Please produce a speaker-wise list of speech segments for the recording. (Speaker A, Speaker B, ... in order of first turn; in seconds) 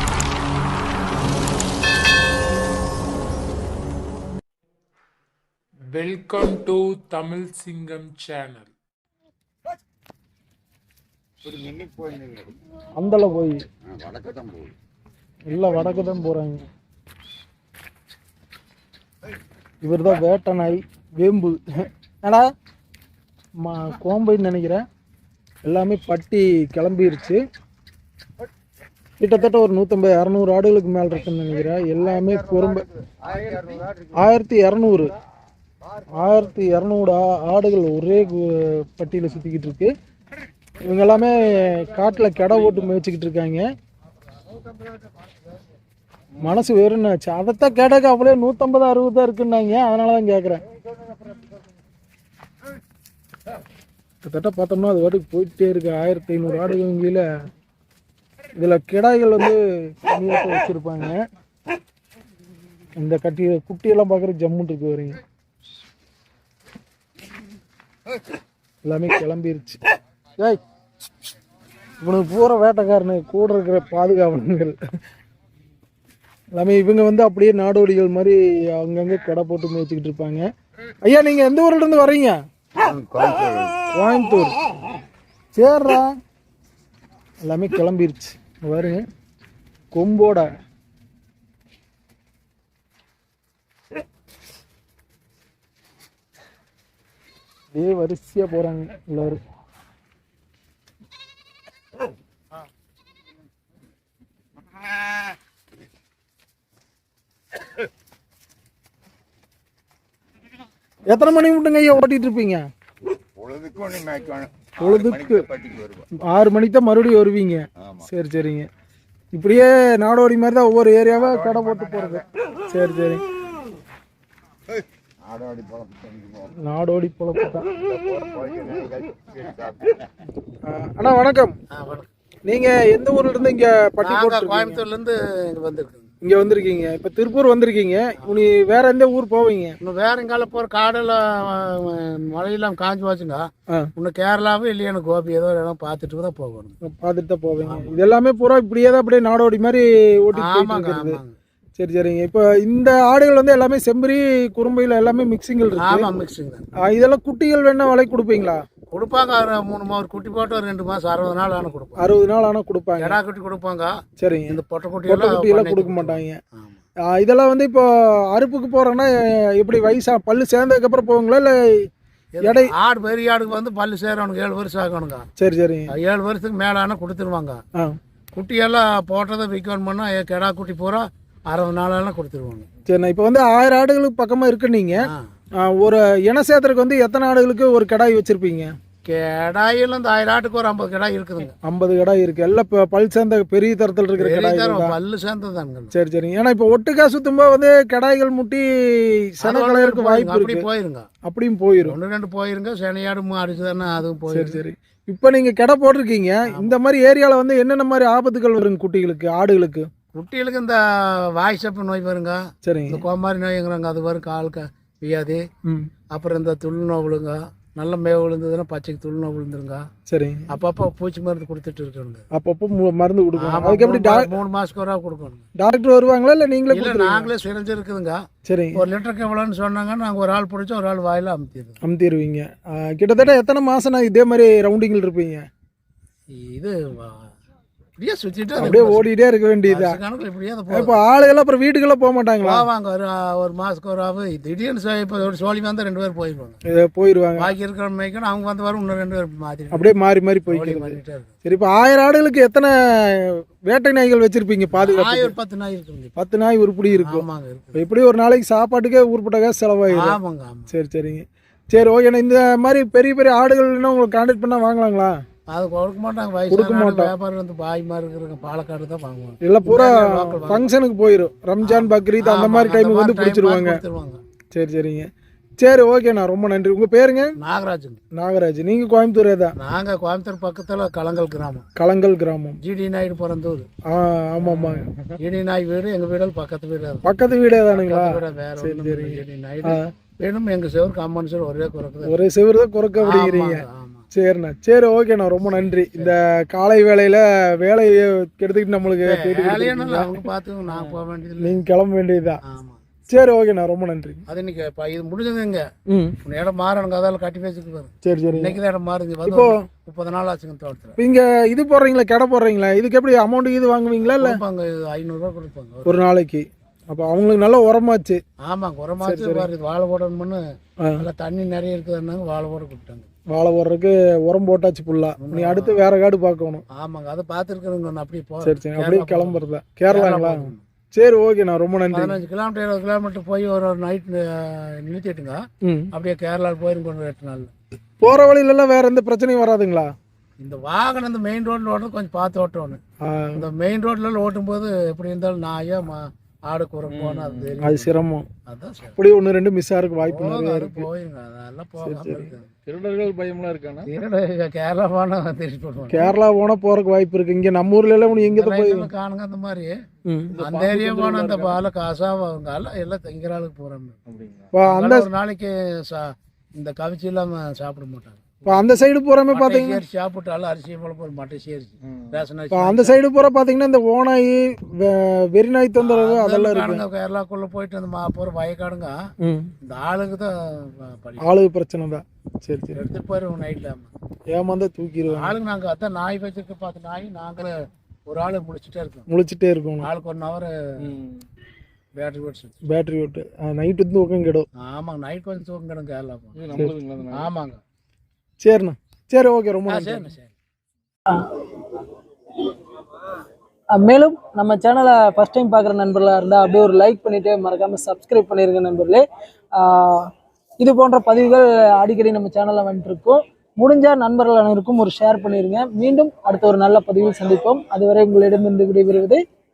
Speaker A: 5.9-8.7
Speaker B: 13.0-13.7, 15.5-16.6, 19.8-22.5, 23.6-24.8, 25.6-27.4, 29.2-32.9, 34.2-35.1, 36.0-39.9, 40.8-43.7, 46.4-50.6, 54.2-57.3, 58.6-61.2, 63.0-65.2, 68.8-69.8, 72.0-74.8, 76.5-80.5, 81.0-82.4, 83.5-84.6, 85.5-86.2, 87.4-89.0, 89.9-90.5, 97.7-99.4, 111.1-112.7, 114.7-115.7, 116.3-118.7, 119.3-123.2, 126.6-128.7, 130.7-131.6, 132.5-134.8, 136.2-139.8, 146.8-151.2, 151.8-156.1, 156.8-158.7, 162.0-163.2, 164.2-166.4, 167.0-171.9, 172.4-172.7, 175.4-175.9, 182.9-185.0, 185.6-188.7, 191.6-195.0, 195.9-200.7, 201.2-202.0, 204.3-209.9, 212.6-213.1, 220.1-220.5, 222.3-224.3, 225.6-227.3, 228.5-228.8, 231.8-235.5, 238.6-240.0, 240.7-242.7, 246.7-247.5, 249.7-255.3, 256.2-260.2, 260.7-265.2, 266.5-267.1, 269.4-273.8, 274.5-275.1, 275.6-277.3, 278.1-279.5, 281.8-282.6, 283.9-285.1, 287.0-289.9, 292.1-302.4, 303.1-304.2, 305.9-306.2, 308.0-308.6, 309.3-309.6, 311.0-314.4, 315.9-318.2, 319.0-319.5, 323.3-326.6, 328.4-332.2, 335.6-335.9, 338.0-339.9, 343.0-343.4, 347.6-348.3, 349.0-350.9, 351.8-352.3, 355.9-358.9, 360.1-360.4, 364.5-365.1, 368.5-369.8, 372.5-376.8, 379.2-379.5, 381.2-382.8, 384.3-385.4, 389.1-389.9, 392.7-394.5, 398.4-400.1
Speaker C: 131.7-132.1, 134.0-136.1, 139.8-146.8, 147.6-148.0, 150.4-151.4, 155.7-156.7, 158.9-162.1, 163.0-163.9, 164.5-166.8, 172.4-175.3, 175.9-177.6, 178.3-182.7, 185.0-185.3, 189.1-191.6, 194.2-195.9, 199.4-201.1, 201.8-204.6, 206.5-206.8, 210.1-215.4, 216.1-219.8, 220.5-222.3, 223.4-225.4, 226.7-228.2, 228.7-231.8, 236.3-237.3, 238.0-239.1, 239.7-241.0, 242.4-246.6, 247.4-249.9, 250.5-251.3, 254.8-256.1, 256.9-257.8, 259.9-260.7, 265.5-270.7, 271.6-274.2, 277.4-278.0, 279.6-281.7, 282.6-283.7, 284.4-287.1, 287.7-292.2, 293.0-294.1, 295.6-296.1, 299.1-301.6, 302.4-302.8, 304.3-305.7, 306.2-311.0, 314.0-316.0, 318.5-320.4, 321.0-323.1, 325.2-325.8, 326.7-330.6, 331.9-335.4, 335.9-337.5, 340.4-342.8, 343.4-347.9, 348.5-349.0, 350.0-352.5, 353.9-356.1, 358.2-359.7, 360.4-364.0, 364.6-373.0, 375.8-379.0, 379.6-381.3, 382.7-383.9, 385.1-387.5, 388.1-389.1, 389.8-390.5, 392.0-392.6, 394.6-397.6, 399.7-400.4
Speaker D: 346.9-347.6, 352.7-353.9, 360.3-361.6, 364.1-364.5, 390.8-391.2, 396.4-397.3
Speaker E: 401.1-401.8, 402.4-403.1, 403.7-409.0, 409.6-419.2